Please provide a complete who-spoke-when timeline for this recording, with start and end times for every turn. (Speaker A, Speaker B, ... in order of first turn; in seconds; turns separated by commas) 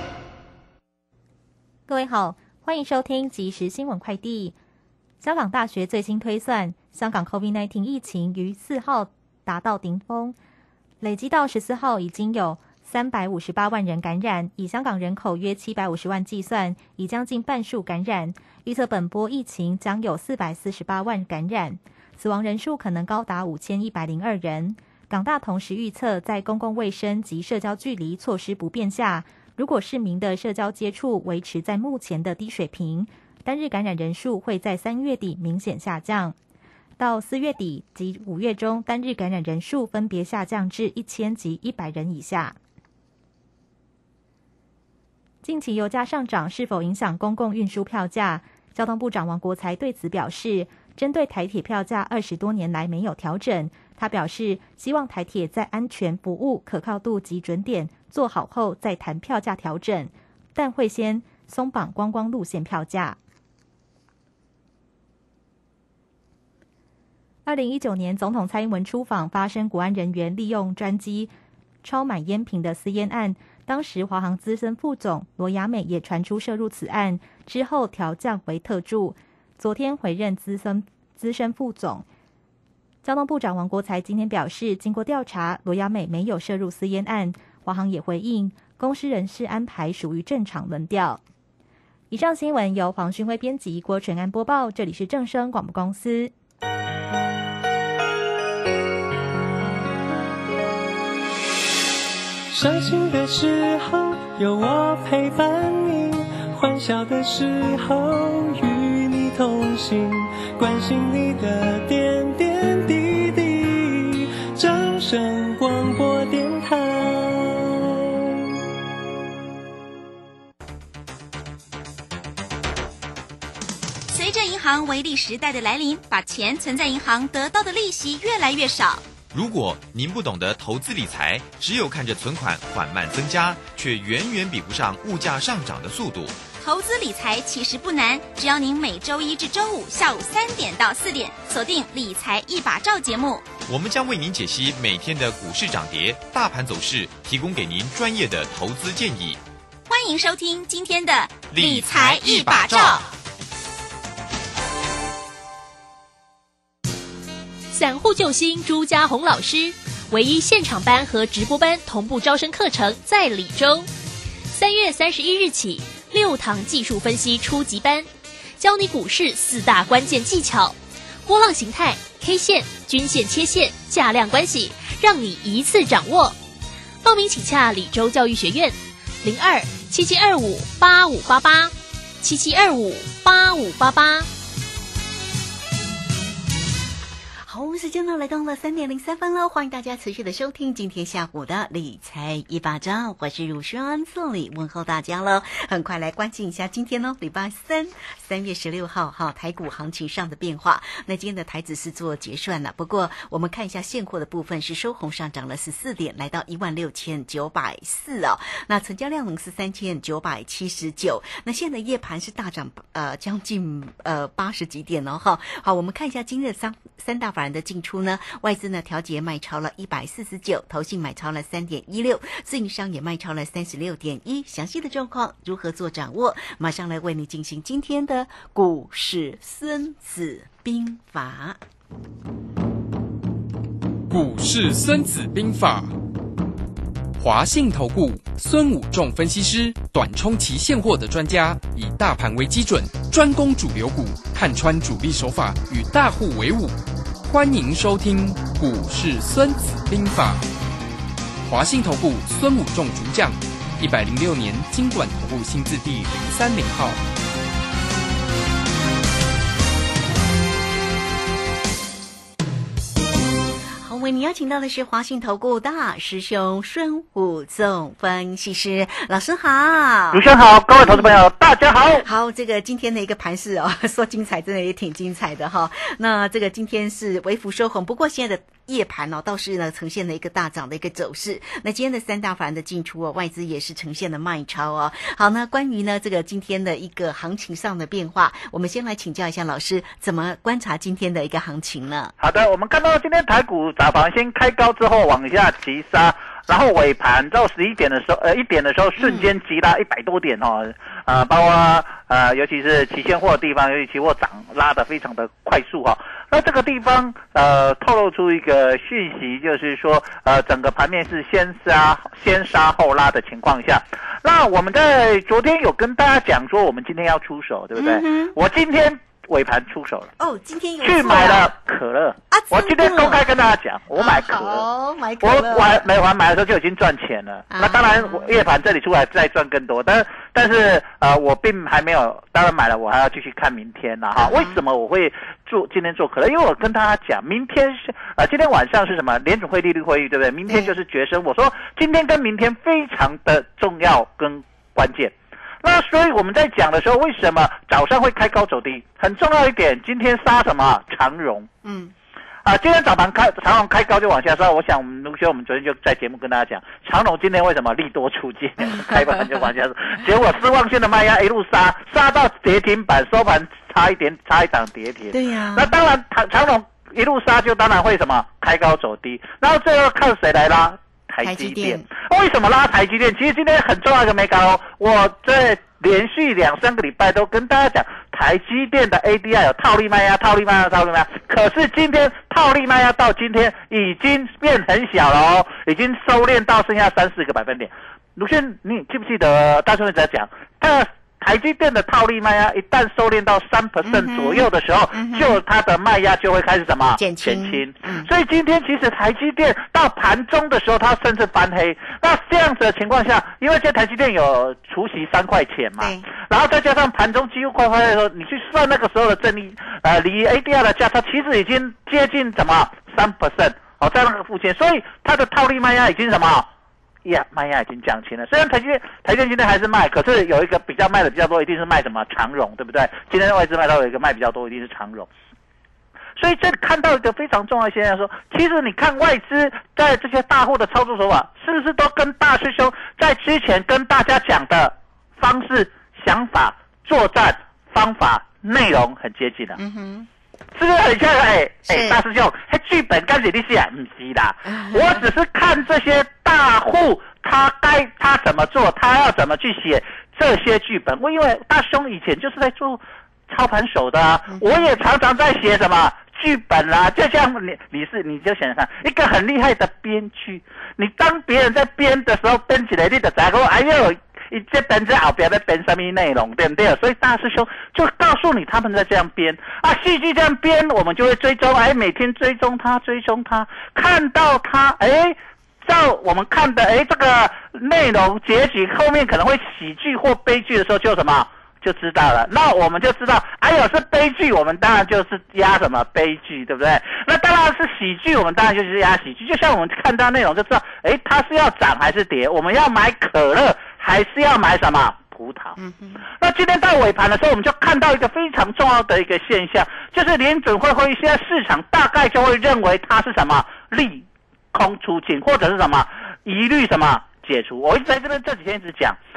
Speaker A: 1.9-4.6, Speaker A: 5.2-10.4, Speaker A: 11.0-36.4, Speaker A: 37.0-42.6, Speaker A: 45.4-63.2, Speaker A: 67.5-71.3, Speaker A: 71.8-82.0, Speaker A: 83.0-91.2, Speaker A: 92.1-96.3, Speaker B: 102.5-118.2, Speaker C: 124.1-129.1, Speaker D: 129.3-136.4, Speaker C: 136.6-143.5, Speaker D: 143.7-149.4, Speaker C: 149.9-153.1, Speaker D: 151.5-153.0, Speaker E: 157.7-163.9, Speaker E: 164.5-176.4, Speaker E: 177.0-184.3, Speaker F: 187.5-231.6, Speaker G: 234.1-235.9, Speaker G: 237.2-250.4, Speaker G: 251.4-257.0, Speaker F: 263.8-270.3, Speaker H: 270.1-272.1, Speaker F: 270.8-271.2, Speaker F: 272.0-292.1, Speaker H: 292.2-320.1, Speaker F: 299.0-299.3, Speaker F: 317.8-318.4, Speaker F: 320.2-321.5, Speaker H: 320.8-324.7, Speaker F: 322.3-323.3, Speaker F: 323.9-325.9, Speaker H: 325.2-351.5, Speaker F: 327.5-328.4, Speaker F: 334.2-334.6, Speaker F: 340.5-340.7, Speaker F: 351.6-351.9, Speaker H: 352.4-416.5, Speaker F: 358.7-359.2, Speaker F: 365.1-365.7, Speaker F: 371.2-371.9, Speaker F: 393.8-395.4, Speaker F: 397.0-398.1, Speaker F: 405.8-406.1, Speaker H: 417.0-425.1, Speaker H: 426.2-439.6, Speaker F: 439.6-440.1, Speaker H: 440.6-495.6, Speaker F: 441.7-442.0, Speaker F: 444.5-445.0, Speaker F: 454.3-454.6, Speaker F: 495.6-496.0, Speaker H: 496.2-509.0